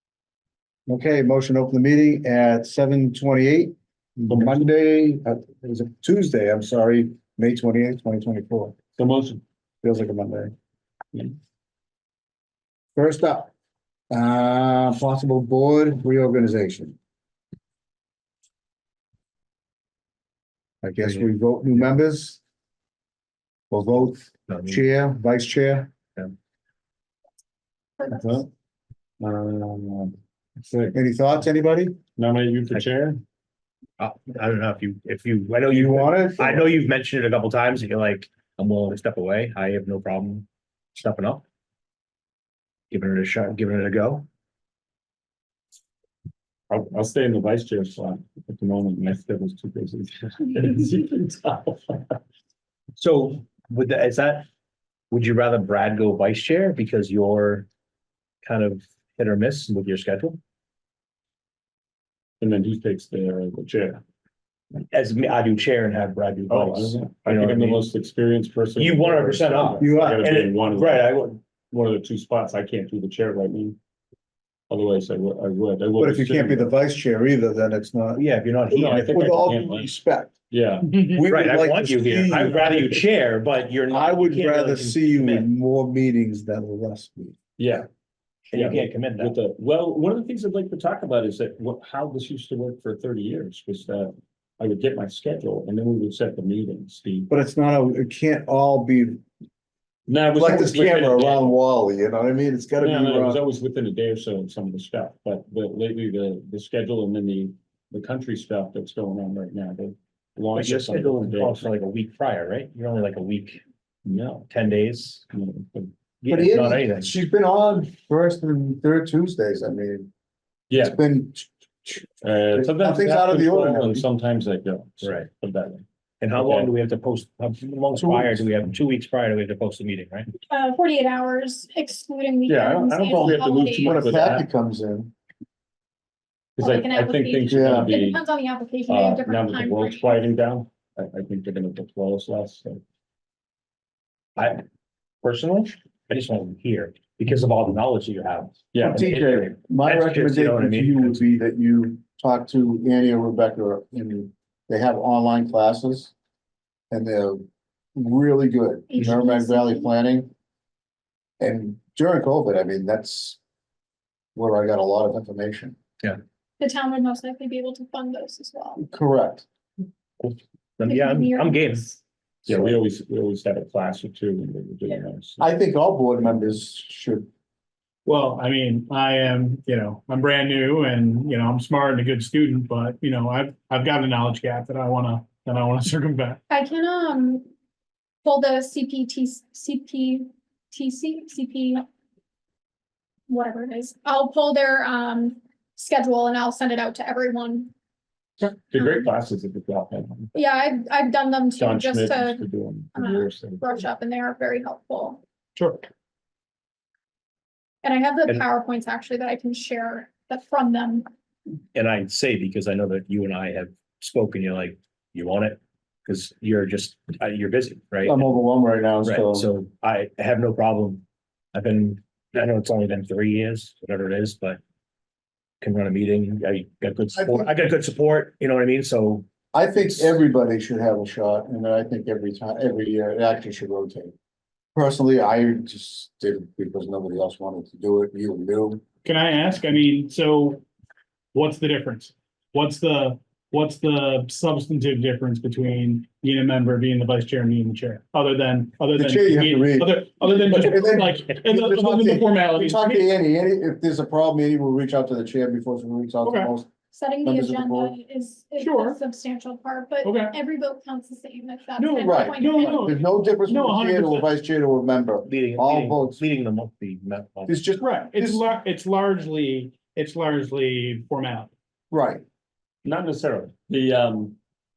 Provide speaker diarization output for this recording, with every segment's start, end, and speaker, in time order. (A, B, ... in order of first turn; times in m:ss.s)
0:00.9-0:08.8 A
0:04.3-0:04.6 B
0:09.0-0:09.4 B
0:09.8-0:10.5 A
0:12.9-0:13.5 A
0:14.1-0:17.0 A
0:20.8-0:22.4 A
0:23.7-0:25.9 A
0:24.5-0:24.8 C
0:28.0-0:28.4 D
0:28.1-0:28.5 A
0:29.2-0:30.1 B
0:30.6-0:30.9 B
0:30.9-0:32.0 A
0:32.2-0:33.2 B
0:34.0-0:41.4 C
0:35.7-0:36.7 A
0:42.9-0:44.2 C
0:46.7-0:52.1 B
0:53.0-0:54.5 C
0:55.1-0:57.7 C
0:58.4-1:00.4 C
1:02.4-1:04.0 B
1:04.9-1:07.9 C
1:06.5-1:11.1 B
1:08.8-1:11.4 C
1:09.8-1:10.3 A
1:11.7-1:13.8 B
1:14.7-1:16.7 B
1:16.0-1:20.3 A
1:18.1-1:19.2 C
1:18.7-1:19.9 B
1:20.5-1:20.9 B
1:20.9-1:21.2 E
1:21.0-1:23.0 A
1:21.3-1:25.5 C
1:23.9-1:27.4 A
1:27.6-1:27.9 B
1:28.5-1:29.3 C
1:28.5-1:37.3 B
1:37.3-1:39.2 A
1:40.1-1:41.6 B
1:40.3-1:43.4 A
1:42.8-1:51.7 B
1:50.5-1:53.6 C
1:54.0-1:54.5 B
1:54.5-1:55.2 C
1:55.3-1:55.9 B
1:56.2-1:57.2 C
1:56.3-2:00.1 A
2:00.7-2:01.0 B
2:00.8-2:04.0 A
2:02.2-2:06.7 B
2:06.2-2:10.3 C
2:07.9-2:08.5 A
2:10.5-2:14.1 D
2:12.4-2:14.5 B
2:13.2-2:15.1 A
2:16.6-2:18.2 B
2:16.6-2:20.3 D
2:17.5-2:17.9 A
2:18.9-2:22.8 B
2:24.4-2:24.6 C
2:25.2-2:31.2 C
2:28.7-2:29.0 B
2:28.8-2:36.1 A
2:36.9-2:40.3 A
2:38.9-2:39.9 D
2:41.4-2:43.4 A
2:44.3-2:45.8 A
2:46.6-2:48.8 D
2:48.8-2:49.4 A
2:50.2-2:51.9 C
2:50.8-2:52.0 D
2:52.4-2:55.4 B
2:55.4-2:57.3 A
2:58.0-3:06.4 E
3:06.5-3:07.5 D
3:08.2-3:11.8 D
3:13.3-3:17.7 D
3:18.4-3:20.3 B
3:20.3-3:25.2 D
3:21.6-3:23.6 B
3:25.6-3:25.8 E
3:27.8-3:31.1 D
3:31.7-3:38.2 C
3:38.0-3:39.5 A
3:39.0-3:44.6 C
3:45.6-3:49.2 C
3:47.1-3:47.5 A
3:49.5-3:54.1 A
3:54.7-3:58.8 A
3:59.0-4:00.6 E
4:01.3-4:13.1 E
4:09.0-4:16.7 A
4:16.2-4:16.5 E
4:16.9-4:22.9 D
4:17.2-4:18.0 A
4:18.6-4:19.0 E
4:20.0-4:20.4 E
4:21.8-4:24.3 E
4:22.0-4:26.2 A
4:25.2-4:27.6 C
4:27.5-4:28.4 A
4:27.7-4:31.5 E
4:31.9-4:32.2 A
4:32.8-4:34.4 B